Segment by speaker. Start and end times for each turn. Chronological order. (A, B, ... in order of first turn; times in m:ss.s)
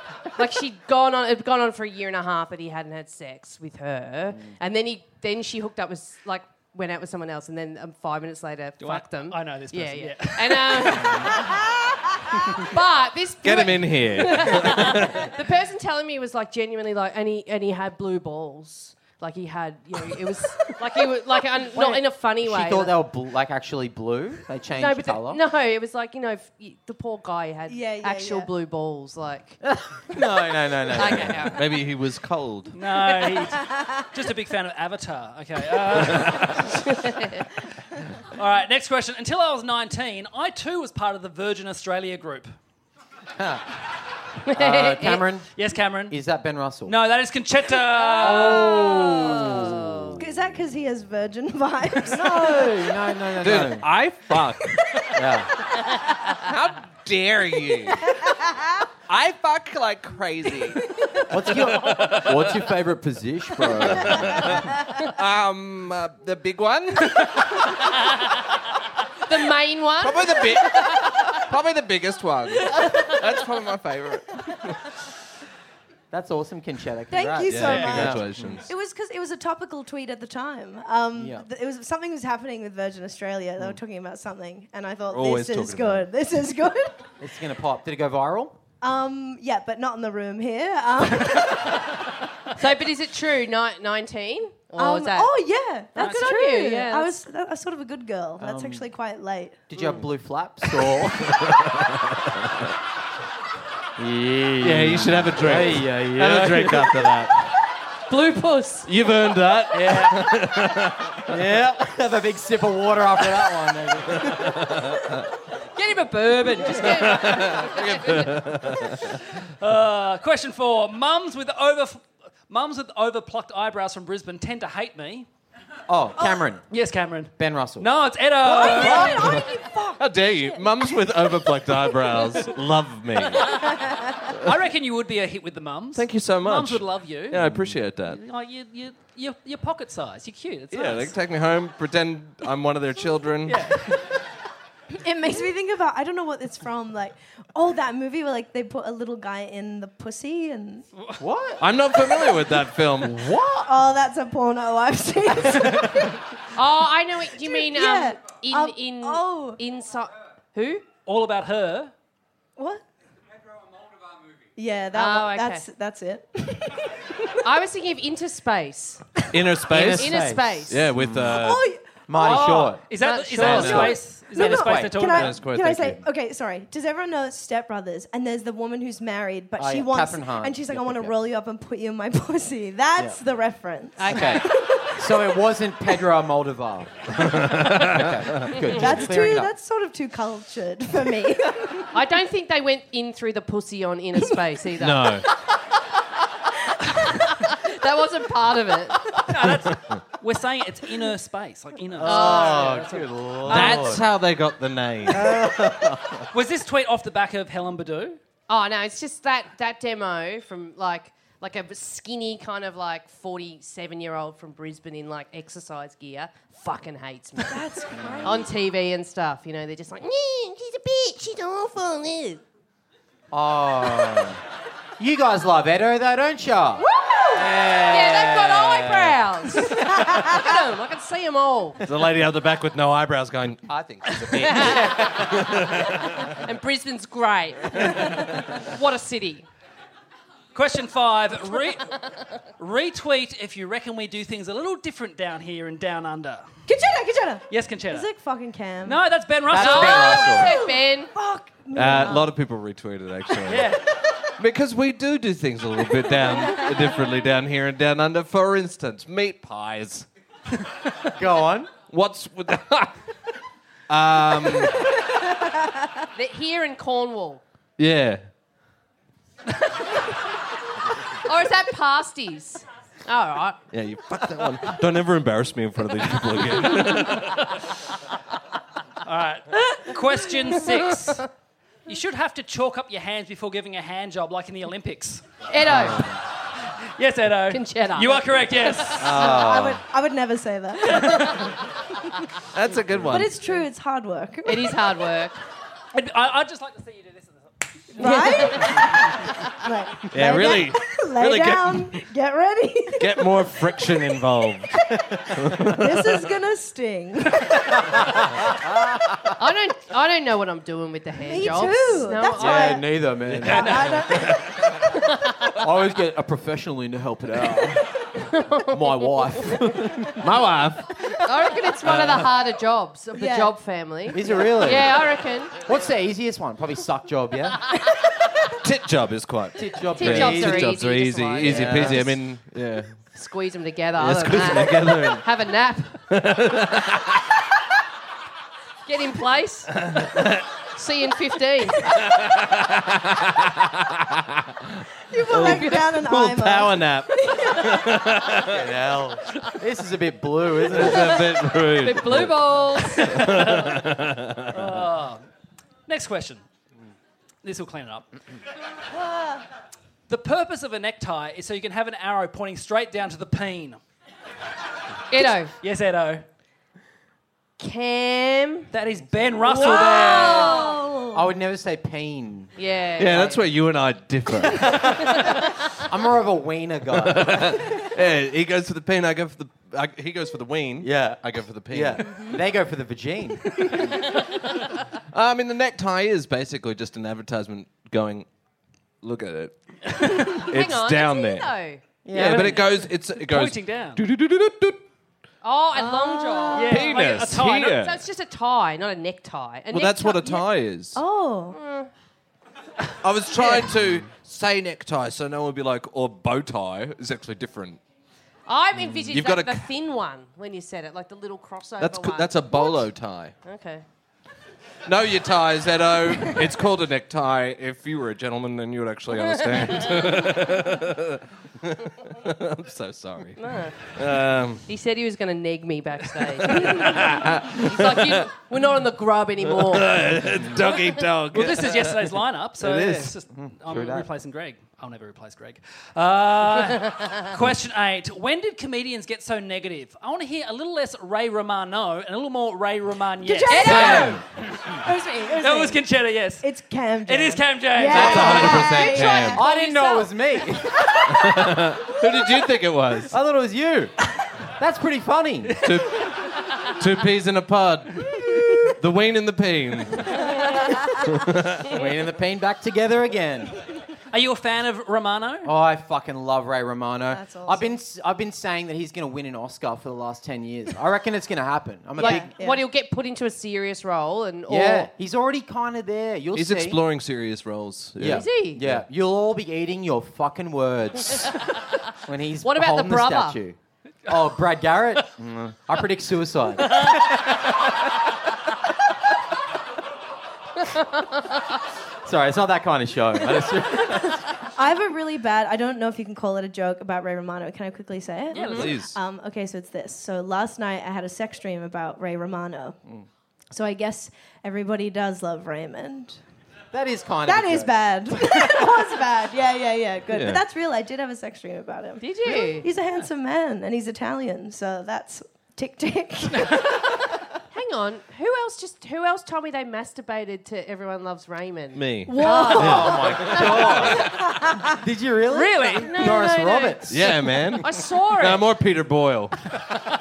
0:00.3-0:11.4 A
0:08.8-0:11.4 B
0:12.6-0:23.0 A
0:13.4-0:15.3 C
0:21.7-0:25.4 D
0:24.8-0:29.6 A
0:27.7-0:28.5 E
0:29.6-0:31.5 D
0:31.0-0:31.6 A
0:31.5-0:32.7 C
0:32.7-0:36.7 B
0:33.1-0:34.1 E
0:38.3-0:42.5 B
0:44.4-0:45.2 A
0:44.5-0:45.5 D
0:45.6-0:46.2 B
0:46.1-0:47.0 D
0:46.8-0:48.6 B
0:48.2-0:50.2 A
0:48.2-0:50.2 D
0:48.5-0:49.7 C
0:50.2-0:52.8 E
0:52.1-0:53.9 D
0:53.4-0:55.1 C
0:55.1-0:55.5 D
0:56.3-0:58.1 C
0:58.2-0:58.8 E
0:59.1-1:00.8 C
1:01.3-1:04.4 D
1:01.8-1:02.5 C
1:03.6-1:07.9 C
1:09.3-1:11.3 A
1:10.0-1:14.8 C
1:12.8-1:13.1 A
1:16.1-1:18.6 D
1:17.1-1:27.0 E
1:17.5-1:18.6 C
1:21.2-1:21.4 D
1:25.1-1:26.1 C
1:27.2-1:28.6 D
1:28.8-1:32.0 E
1:32.6-1:35.3 A
1:34.8-1:39.6 E
1:35.9-1:37.2 A
1:36.0-1:36.2 B
1:38.4-1:38.9 D
1:39.7-1:41.3 D
1:41.3-1:42.4 C
1:44.0-1:47.1 D
1:44.6-1:47.5 C
1:48.1-1:48.9 A
1:48.8-1:51.3 C
1:51.3-1:54.6 D
1:54.2-1:55.2 C
1:55.8-1:58.3 A
1:56.2-1:56.9 B
1:56.8-1:59.1 C
1:59.4-2:05.3 B
2:05.9-2:06.6 D
2:06.7-2:09.3 B
2:07.4-2:07.9 D
2:08.4-2:10.9 E
2:08.6-2:09.4 D
2:09.0-2:09.4 C
2:10.0-2:13.7 C
2:13.8-2:14.1 E
2:14.4-2:21.2 B
2:15.9-2:18.2 C
2:20.7-2:23.7 C
2:23.4-2:23.9 B
2:25.0-2:30.9 E
2:31.2-2:31.6 D
2:31.6-2:33.3 C
2:32.2-2:32.5 E
2:33.0-2:33.7 D
2:33.4-2:36.2 E
2:36.5-2:40.8 A
2:37.4-2:39.6 E
2:41.0-2:41.9 B
2:42.6-2:42.8 E
2:44.6-2:47.4 E
2:44.9-2:45.6 A
2:47.4-2:49.2 A
2:49.3-2:51.6 C
2:49.7-2:51.4 D
2:49.9-2:50.9 A
2:51.2-2:51.9 E
2:52.1-2:52.8 D
2:52.1-2:55.4 B
2:52.9-2:54.0 A
2:53.4-2:55.0 D
2:53.4-2:53.9 C
2:53.7-3:05.3 E
2:55.0-2:56.0 C
2:59.6-3:01.2 D
3:04.0-3:04.5 A
3:04.0-3:09.5 D
3:07.2-3:08.5 C
3:08.7-3:11.9 E
3:11.9-3:15.2 A
3:14.8-3:15.2 C
3:17.2-3:19.2 A
3:19.2-3:24.0 B
3:22.0-3:24.1 D
3:22.0-3:23.0 A
3:23.4-3:26.2 C
3:25.1-3:25.9 D
3:26.3-3:28.2 B
3:28.5-3:37.6 A
3:37.4-3:38.4 E
3:38.0-3:38.4 D
3:38.2-3:42.4 A
3:43.3-3:44.4 D
3:45.0-3:49.2 D
3:47.1-3:47.4 E
3:47.8-3:51.8 A
3:51.8-3:56.4 C
3:53.7-3:55.2 D
3:54.3-3:55.3 A
3:56.4-3:59.5 A
4:00.5-4:02.0 B
4:02.6-4:06.5 B
4:06.7-4:09.0 E
4:07.5-4:08.1 B
4:08.8-4:10.2 B
4:09.5-4:10.5 D
4:09.5-4:11.1 A
4:10.2-4:12.3 E
4:11.7-4:13.7 C
4:13.4-4:13.8 B
4:14.4-4:20.0 C
4:21.1-4:21.7 D
4:21.8-4:23.0 C
4:23.9-4:24.9 C
4:26.1-4:27.4 A
4:27.8-4:28.2 C
4:31.2-4:33.6 A
4:33.7-4:37.5 C
4:39.0-4:41.2 B
4:40.6-4:41.2 A
4:41.9-4:45.2 B
4:45.5-4:46.1 A
4:45.7-4:46.0 C
4:45.7-4:46.1 D
4:46.6-4:49.1 B
4:47.5-4:48.9 A
4:49.0-4:49.8 C
4:49.1-4:51.6 E
4:49.1-4:49.8 D
4:50.9-4:51.4 B
4:52.5-4:53.4 C
4:53.1-4:54.8 E
4:54.4-4:55.4 A
4:55.9-4:58.1 B
4:58.0-5:03.4 E
4:58.0-4:58.7 A
5:00.1-5:02.0 C
5:03.0-5:06.2 C
5:05.5-5:07.6 E
5:07.9-5:09.2 D
5:09.4-5:12.8 A
5:11.2-5:14.6 E
5:12.4-5:13.9 D
5:13.2-5:14.8 C
5:15.6-5:17.9 D
5:18.2-5:19.6 A
5:18.7-5:20.2 D
5:20.2-5:21.0 C
5:21.2-5:25.5 A
5:21.8-5:22.3 C
5:23.1-5:23.5 E
5:24.1-5:24.9 D
5:25.6-5:27.7 D
5:28.6-5:33.0 C
5:29.6-5:30.8 D
5:30.0-5:32.1 A
5:31.4-5:32.2 D
5:33.1-5:36.0 A
5:34.0-5:35.2 C
5:36.1-5:37.2 C
5:38.8-5:40.0 A
5:39.8-5:40.4 C
5:40.7-5:42.0 A
5:41.8-5:48.6 C
5:45.1-5:48.0 E
5:45.4-5:45.8 A
5:48.4-5:51.2 D
5:50.7-5:54.7 C
5:50.9-5:53.2 A
5:53.2-5:53.8 B
5:54.5-5:55.2 B
5:55.9-5:56.4 B
5:57.4-5:58.1 B
5:59.0-5:59.4 E
6:00.1-6:03.8 B
6:05.1-6:05.5 A
6:05.6-6:06.2 B
6:07.6-6:08.7 A
6:08.7-6:10.6 B
6:09.4-6:11.2 E
6:09.6-6:10.8 A
6:11.1-6:12.5 D
6:12.6-6:13.5 A
6:13.0-6:15.2 C
6:14.6-6:15.4 A
6:15.8-6:17.6 D
6:17.0-6:22.1 C
6:20.8-6:23.8 D
6:25.1-6:28.3 C
6:29.0-6:31.5 C
6:30.3-6:31.8 A
6:32.0-6:32.6 D
6:32.1-6:34.8 C
6:32.2-6:34.0 B
6:35.4-6:36.9 A
6:35.7-6:36.7 E
6:36.5-6:37.8 B
6:36.6-6:38.0 C
6:37.8-6:40.4 A
6:39.7-6:41.0 C
6:40.9-6:41.6 E
6:41.5-6:41.9 A
6:43.0-6:47.8 C
6:48.5-6:52.9 A
6:49.0-6:49.6 C
6:51.8-6:53.3 C
6:53.4-6:53.8 A
6:54.8-7:04.6 C
6:59.2-7:00.2 A
7:03.4-7:04.0 A
7:04.7-7:10.0 A
7:06.4-7:08.3 C
7:09.5-7:13.1 C
7:11.3-7:24.2 B
7:13.3-7:14.1 D
7:23.2-7:25.8 E
7:23.5-7:24.2 A
7:23.7-7:24.2 C
7:25.4-7:26.4 B
7:26.4-7:29.4 E
7:27.0-7:28.7 B
7:27.9-7:31.3 D
7:27.9-7:29.4 C
7:29.4-7:29.7 A
7:31.1-7:33.1 C
7:33.1-7:33.9 D
7:34.5-7:35.7 D
7:35.6-7:40.3 C
7:41.0-7:41.7 C
7:41.7-7:43.6 D
7:44.1-7:45.5 B
7:45.4-7:52.3 D
7:47.1-7:47.7 E
7:52.0-7:52.6 E
7:52.0-7:54.9 A
7:54.5-7:56.8 D
7:56.3-7:58.8 C
7:58.0-8:01.4 D
7:58.1-7:58.6 A
8:02.0-8:07.8 D
8:02.4-8:03.4 A
8:10.7-8:11.4 A
8:12.0-8:14.2 D
8:14.6-8:22.8 E
8:18.3-8:18.7 B
8:18.5-8:19.0 C
8:23.5-8:26.2 E
8:26.7-8:28.9 D
8:27.2-8:36.9 E
8:30.1-8:30.4 C
8:32.0-8:32.7 A
8:37.5-8:44.1 A
8:41.7-8:44.0 C
8:42.1-8:43.2 E
8:42.4-8:47.6 D
8:44.1-8:44.7 E
8:45.3-8:45.9 B
8:45.8-8:46.9 A
8:46.9-8:49.5 C
8:47.6-8:48.5 A